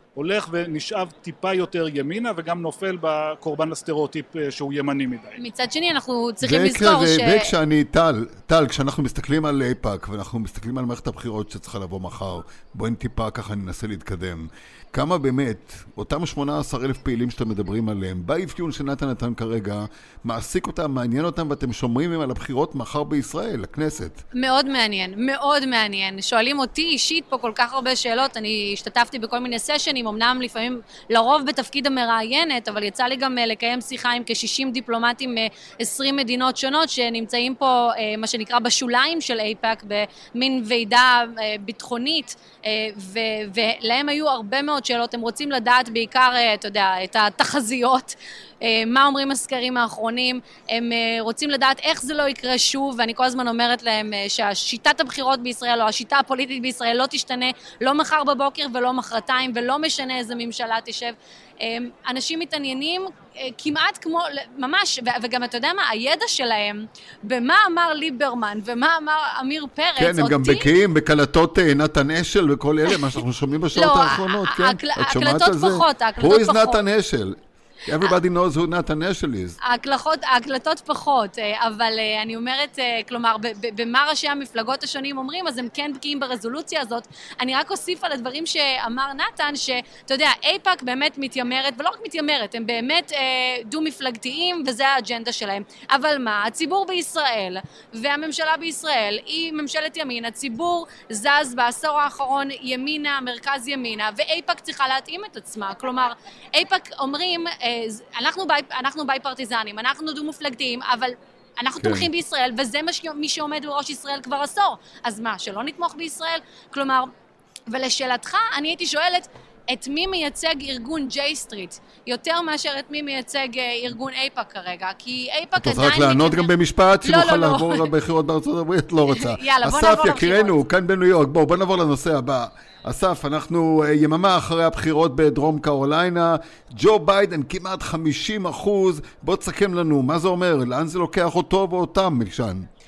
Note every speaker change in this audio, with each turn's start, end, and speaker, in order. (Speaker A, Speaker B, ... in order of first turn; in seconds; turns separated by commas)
Speaker A: 0.1-5.4, Speaker B: 5.4-7.5, Speaker C: 6.4-24.2, Speaker B: 24.3-70.7, Speaker C: 70.0-79.6, Speaker B: 73.7-76.8, Speaker B: 79.6-117.1, Speaker C: 111.8-112.1, Speaker B: 117.7-126.5, Speaker C: 125.6-142.7, Speaker B: 127.0-127.9, Speaker B: 129.1-130.6